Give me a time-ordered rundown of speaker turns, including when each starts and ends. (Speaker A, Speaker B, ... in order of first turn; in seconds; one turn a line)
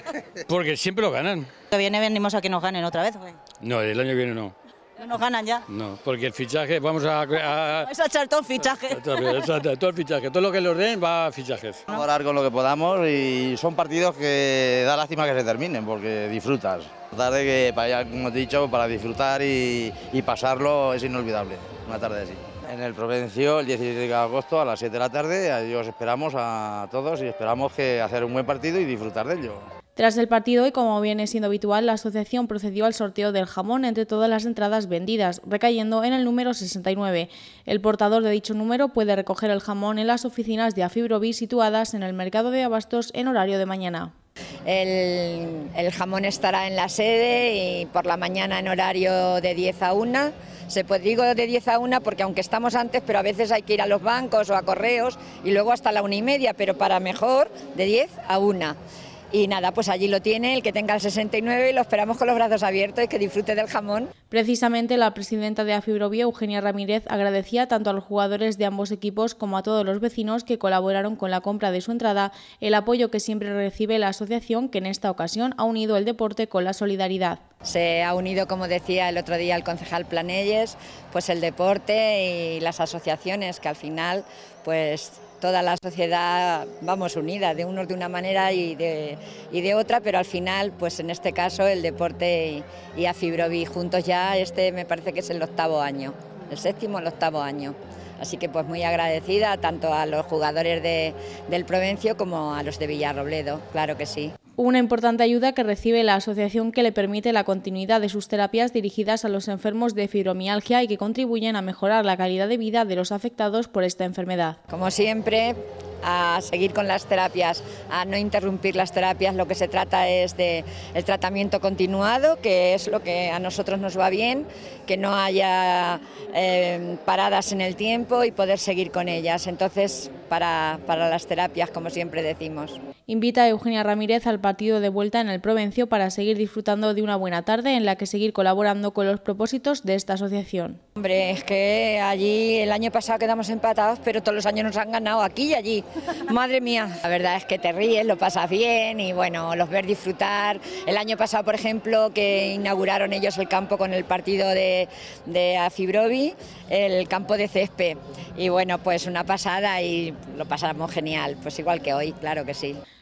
Speaker A: 0.5-1.5
Speaker B: 1.7-3.4
Speaker A: 3.6-4.5
Speaker B: 5.0-5.6
Speaker A: 5.7-7.9
Speaker B: 7.9-9.4
Speaker A: 8.6-11.8
Speaker C: 11.9-29.7
Speaker D: 30.0-44.1
Speaker E: 44.7-58.8
Speaker E: 59.3-64.1
Speaker D: 64.3-77.4
Speaker E: 77.6-104.3
Speaker D: 104.6-114.6
Speaker E: 114.7-132.8
Speaker D: 133.1-140.8
Speaker E: 141.0-162.8